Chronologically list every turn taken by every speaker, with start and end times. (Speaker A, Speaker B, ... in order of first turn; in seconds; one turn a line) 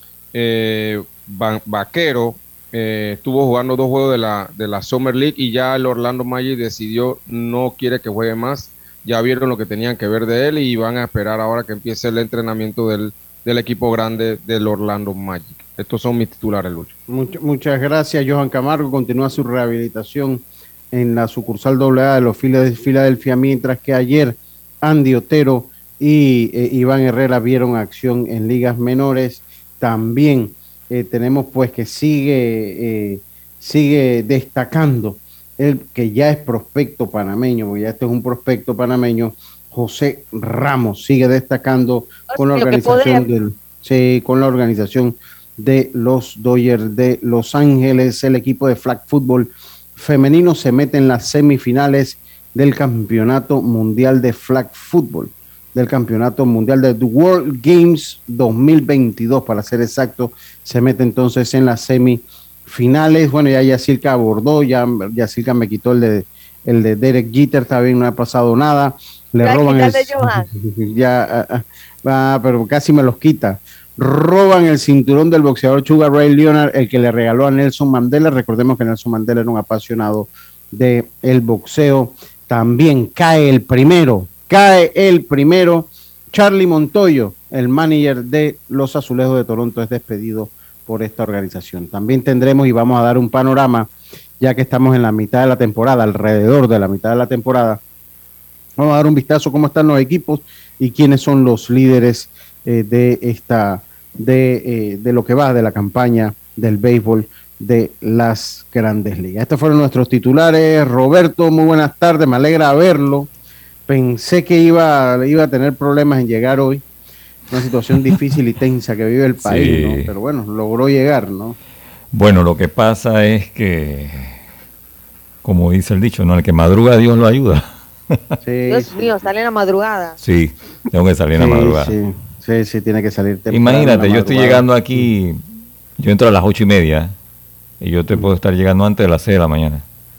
Speaker A: 0.3-16.9
Speaker B: 17.1-97.8
Speaker C: 42.3-43.2
Speaker C: 69.4-70.5
Speaker B: 98.8-113.3
Speaker B: 113.9-116.8
Speaker B: 117.5-121.6
Speaker D: 119.4-120.1
Speaker D: 122.1-124.4
Speaker D: 125.4-128.2
Speaker B: 128.4-129.1
Speaker C: 128.7-130.2
Speaker D: 130.2-131.9
Speaker B: 131.3-135.1
Speaker D: 133.5-135.4
Speaker D: 136.0-137.2
Speaker D: 137.8-139.8